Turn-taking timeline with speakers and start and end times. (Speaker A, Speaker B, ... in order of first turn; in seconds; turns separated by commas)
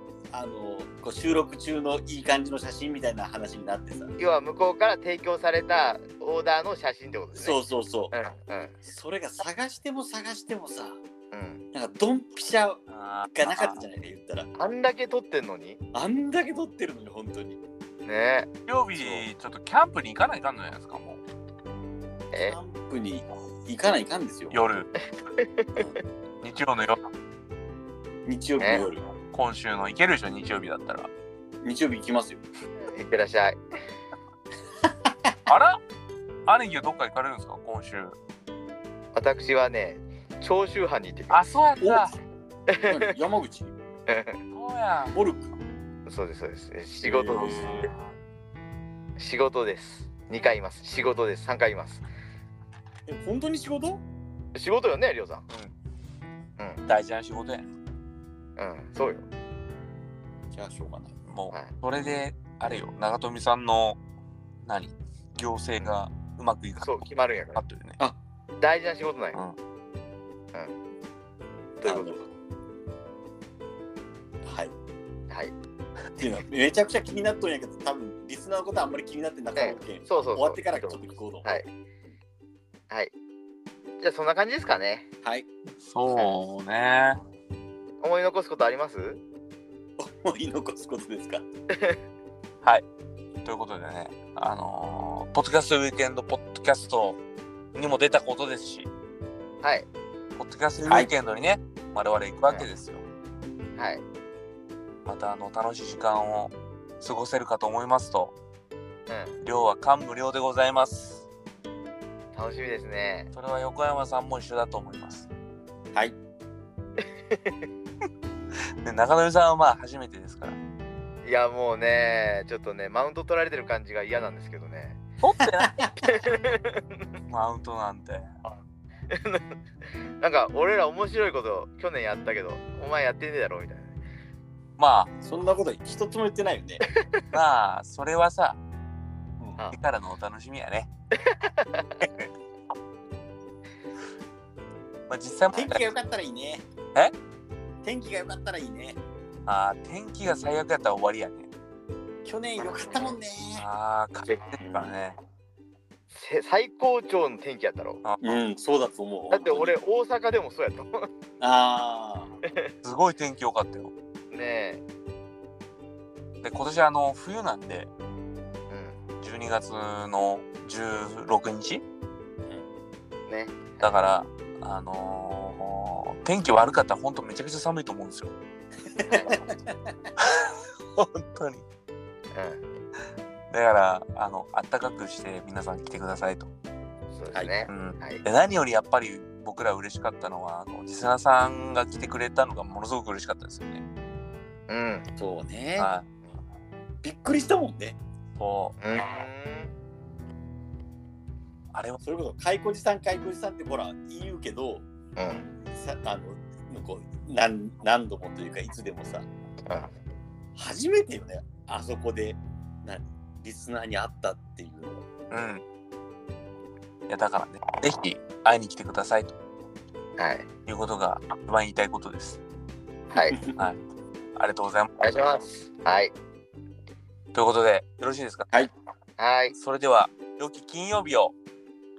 Speaker A: 0.3-4.1, Speaker B: 4.2-7.6, Speaker A: 7.3-8.1, Speaker B: 8.1-8.8, Speaker A: 8.8-11.0, Speaker B: 11.3-11.6, Speaker A: 11.7-12.8, Speaker C: 12.9-13.8, Speaker A: 13.3-14.5, Speaker B: 14.6-15.8, Speaker A: 15.9-17.6, Speaker B: 18.0-18.5, Speaker C: 18.7-21.2, Speaker A: 19.0-19.2, Speaker B: 22.3-22.6, Speaker A: 22.3-24.6, Speaker C: 24.5-24.9, Speaker B: 25.2-25.9, Speaker A: 25.7-26.0, Speaker C: 26.4-27.0, Speaker A: 28.2-29.0, Speaker B: 28.6-28.8, Speaker C: 29.3-31.1, Speaker A: 31.6-32.4, Speaker B: 32.9-33.6, Speaker C: 35.5-35.8, Speaker C: 36.5-38.1, Speaker B: 39.1-41.4, Speaker C: 41.3-42.2, Speaker B: 42.7-43.0, Speaker A: 42.9-43.7, Speaker B: 44.1-44.4, Speaker C: 44.5-45.2, Speaker A: 45.1-45.4, Speaker B: 46.0-47.8, Speaker A: 47.0-47.9, Speaker B: 49.2-52.0, Speaker A: 53.0-54.0, Speaker B: 54.5-55.5, Speaker C: 56.9-57.7, Speaker B: 58.6-59.2, Speaker A: 60.5-61.1, Speaker C: 61.2-64.0, Speaker C: 64.6-68.0, Speaker B: 66.8-67.6, Speaker B: 68.6-69.4, Speaker B: 71.8-72.2, Speaker A: 71.8-72.2, Speaker A: 74.4-74.7, Speaker B: 75.3-75.5, Speaker A: 76.2-81.5, Speaker B: 79.5-81.7, Speaker B: 84.0-85.0, Speaker C: 85.8-87.2, Speaker B: 88.0-89.2, Speaker A: 90.0-91.5, Speaker B: 91.7-92.0, Speaker C: 93.4-97.2, Speaker C: 97.7-98.9, Speaker B: 99.6-99.9, Speaker C: 100.3-103.0, Speaker A: 100.8-101.1, Speaker B: 103.8-104.0, Speaker C: 105.0-108.3, Speaker B: 109.1-109.4, Speaker C: 109.4-111.3, Speaker B: 112.3-113.3, Speaker C: 113.3-115.3, Speaker C: 118.8-120.6, Speaker B: 121.2-125.0, Speaker C: 125.2-125.7, Speaker A: 125.6-125.9, Speaker B: 126.0-126.9, Speaker C: 127.3-128.3, Speaker B: 129.1-129.5, Speaker B: 130.2-134.0, Speaker C: 134.8-135.1, Speaker A: 135.2-136.9, Speaker B: 136.8-137.3, Speaker C: 137.3-138.6, Speaker C: 139.7-140.9, Speaker B: 141.2-142.1, Speaker C: 142.0-142.3, Speaker C: 145.1-145.9, Speaker A: 145.5-146.6, Speaker A: 147.8-149.0, Speaker C: 149.5-151.5, Speaker A: 152.2-153.7, Speaker C: 153.6-155.2, Speaker A: 154.6-155.0, Speaker B: 156.1-158.0, Speaker C: 158.0-158.4, Speaker A: 158.2-159.7, Speaker B: 159.3-161.1, Speaker A: 161.4-162.3, Speaker B: 162.4-162.7, Speaker C: 162.8-163.9, Speaker B: 164.3-164.8, Speaker C: 166.4-167.9, Speaker B: 168.7-169.0, Speaker C: 169.2-171.8, Speaker B: 173.3-173.9, Speaker C: 173.8-178.3, Speaker A: 178.9-179.9, Speaker B: 179.0-179.4, Speaker C: 180.2-181.6, Speaker B: 182.3-182.6, Speaker C: 183.5-186.5, Speaker B: 187.1-188.2, Speaker C: 187.7-193.8, Speaker B: 194.7-195.1, Speaker A: 195.2-195.9, Speaker C: 195.8-196.1, Speaker A: 197.0-198.0, Speaker C: 198.4-198.8, Speaker B: 198.8-199.7, Speaker C: 201.7-202.0, Speaker A: 202.0-204.8, Speaker B: 205.2-205.5, Speaker A: 205.7-209.3, Speaker A: 210.6-215.0, Speaker C: 215.3-215.6, Speaker C: 217.1-219.3, Speaker B: 220.2-220.5, Speaker C: 220.7-222.4, Speaker B: 223.1-223.4, Speaker A: 223.1-223.5, Speaker C: 223.5-223.8, Speaker C: 224.3-224.9, Speaker B: 225.0-226.1, Speaker C: 227.3-228.5, Speaker B: 229.2-229.5, Speaker C: 229.5-231.3